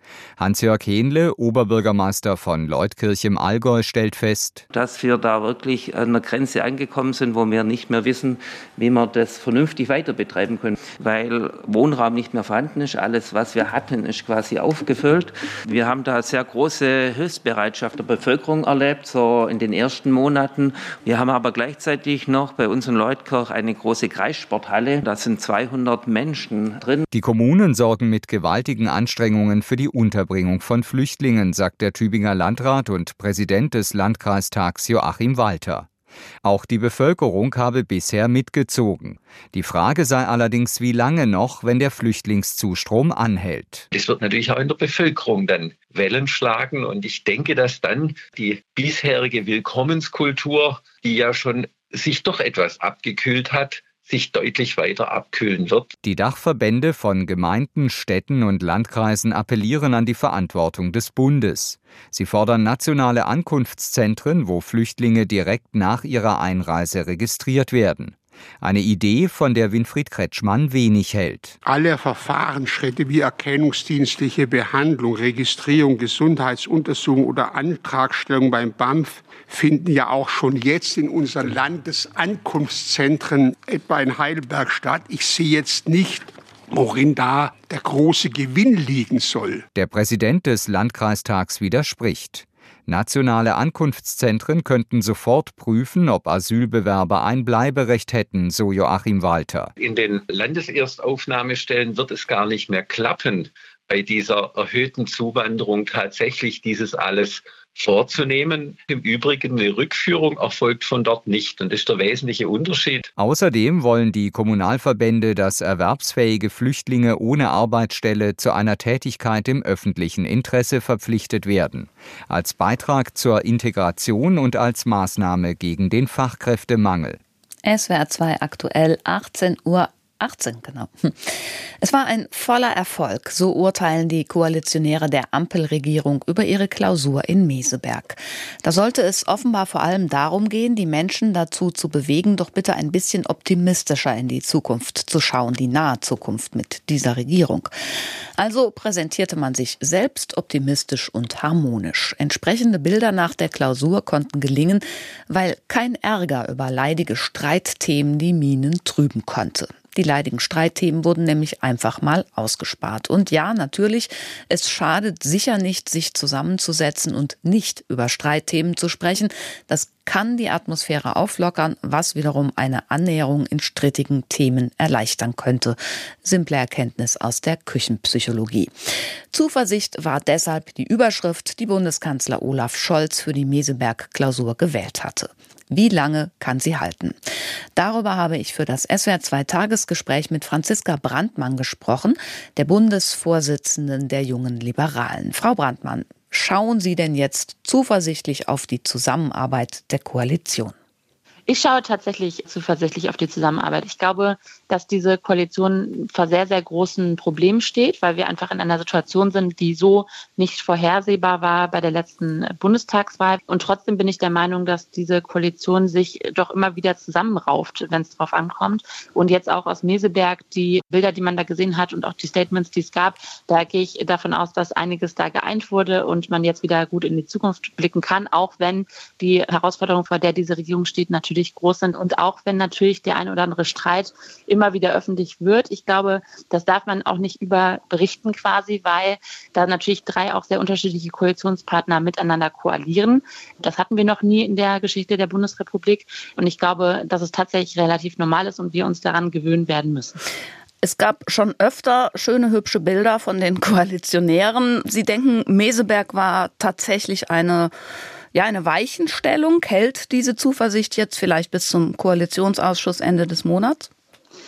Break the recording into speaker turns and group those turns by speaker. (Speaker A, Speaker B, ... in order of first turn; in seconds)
Speaker A: 0.4-4.6, 27.1-35.9, 36.4-43.9, 56.0-71.5, 89.7-99.7, 113.2-127.2
Speaker B: 4.7-27.1
Speaker C: 43.9-55.9, 99.8-113.1
Speaker D: 71.6-89.6
Speaker E: 127.6-147.7, 148.3-178.7, 179.3-187.2, 187.7-200.8
Speaker F: 201.5-250.2
Speaker G: 250.8-257.7, 258.3-263.9